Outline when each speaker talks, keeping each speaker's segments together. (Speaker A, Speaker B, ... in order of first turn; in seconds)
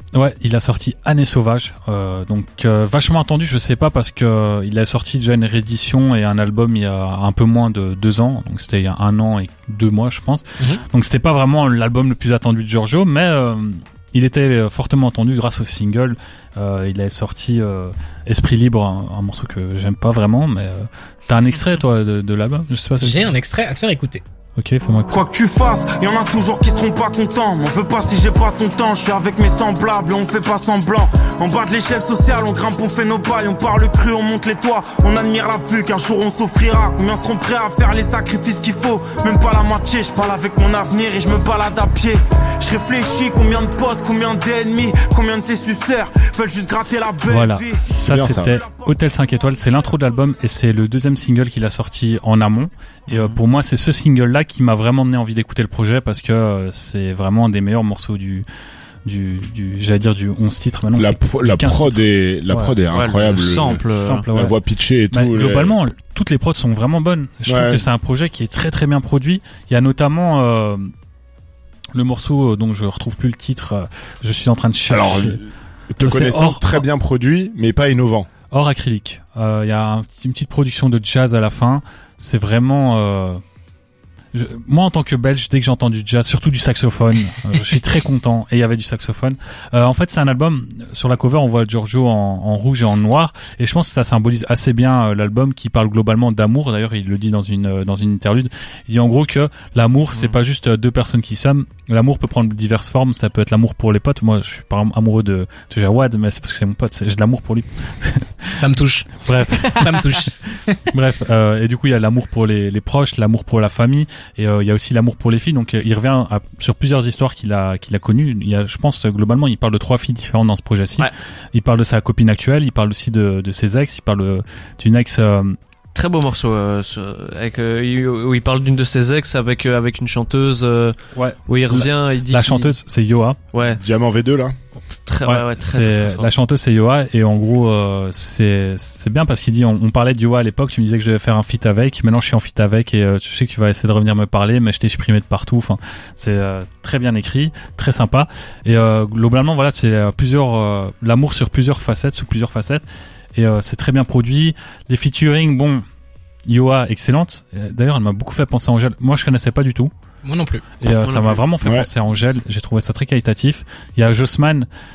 Speaker A: 0.1-23.3, 24.6-25.2, 47.3-58.5, 59.0-62.7, 63.9-64.5, 65.1-70.9, 71.9-75.4, 76.0-76.8, 78.5-83.4, 84.3-108.5, 109.2-110.3, 110.9-125.6, 131.1-133.4, 135.2-152.8, 153.3-155.8, 156.4-159.9, 160.8-164.7
Speaker B: 23.0-24.2, 108.6-110.8, 160.2-160.6
Speaker C: 25.1-47.9
Speaker D: 48.0-48.6, 61.0-65.8, 67.5-67.8, 74.9-78.3, 133.6-134.6, 161.6-161.9
Speaker E: 53.1-53.4, 62.9-64.3, 126.0-132.7, 133.5-133.8, 135.1-136.3, 161.0-161.4